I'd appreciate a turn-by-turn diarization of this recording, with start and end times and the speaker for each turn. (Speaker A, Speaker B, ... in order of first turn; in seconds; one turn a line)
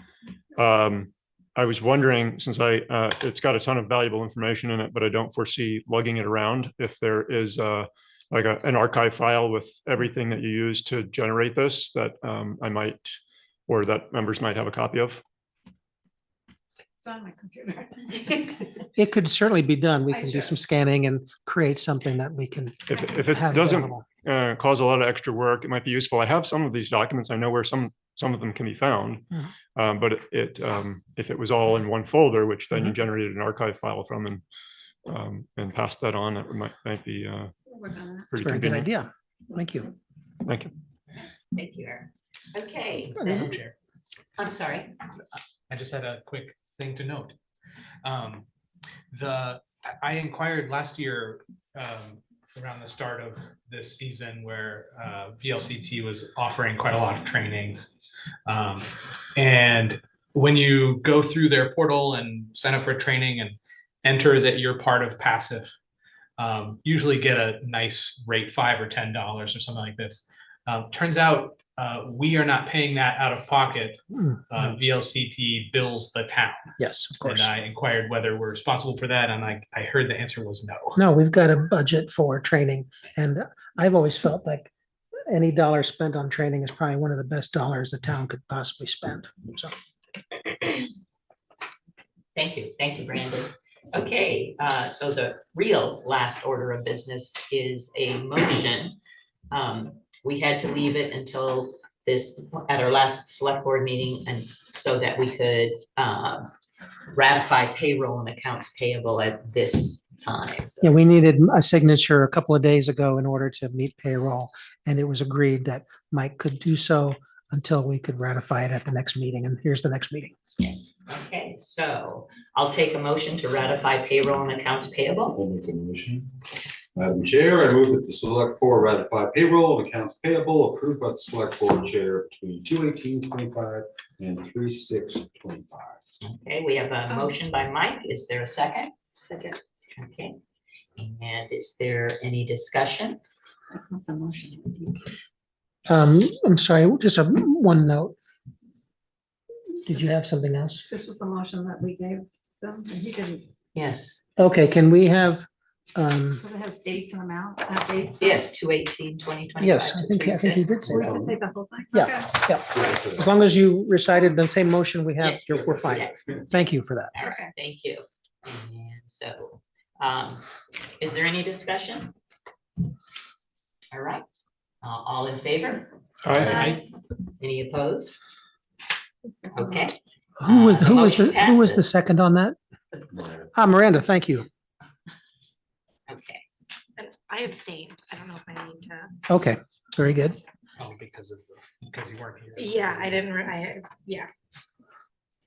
Speaker A: 0.6-15.2
Speaker B: 17.0-18.7
Speaker C: 18.9-24.0
Speaker B: 20.1-20.6
Speaker A: 22.9-34.4
Speaker A: 35.0-37.5
Speaker B: 37.7-38.3
Speaker A: 38.3-38.9
Speaker C: 38.4-39.9
Speaker A: 40.4-40.7
Speaker D: 41.5-43.6
Speaker E: 43.3-43.7
Speaker D: 44.4-44.9
Speaker E: 45.7-47.3
Speaker E: 48.0-48.5
Speaker E: 49.1-57.9
Speaker E: 58.5-65.7
Speaker E: 66.4-76.7
Speaker C: 74.2-74.7
Speaker C: 76.8-77.5
Speaker E: 77.2-81.0
Speaker C: 81.0-84.7
Speaker C: 85.3-89.7
Speaker D: 92.3-99.0
Speaker D: 99.5-106.5
Speaker D: 107.1-111.0
Speaker C: 110.8-120.3
Speaker D: 120.6-125.3
Speaker F: 125.3-126.3
Speaker F: 126.9-136.0
Speaker D: 136.2-138.9
Speaker B: 139.2-139.6
Speaker D: 139.9-140.4
Speaker D: 141.0-143.2
Speaker B: 143.7-145.1
Speaker C: 145.9-148.1
Speaker C: 149.8-150.8
Speaker B: 150.9-153.5
Speaker D: 153.7-154.2
Speaker C: 154.4-156.4
Speaker B: 156.4-158.4
Speaker D: 158.2-160.8
Speaker C: 159.6-161.2
Speaker B: 160.9-162.5
Speaker F: 160.9-161.3
Speaker C: 161.9-167.1
Speaker F: 162.7-163.3
Speaker D: 165.2-170.4
Speaker F: 165.6-166.4
Speaker B: 167.2-167.5
Speaker D: 171.0-172.1
Speaker D: 173.9-174.2
Speaker D: 174.8-176.8
Speaker A: 176.2-176.8
Speaker E: 176.4-176.8
Speaker D: 177.4-178.2
Speaker B: 179.2-179.9
Speaker D: 179.5-181.8
Speaker C: 180.4-182.6
Speaker C: 183.5-184.5
Speaker D: 186.1-186.4
Speaker G: 187.0-189.1
Speaker C: 189.3-190.4
Speaker E: 190.8-193.2
Speaker G: 192.6-194.3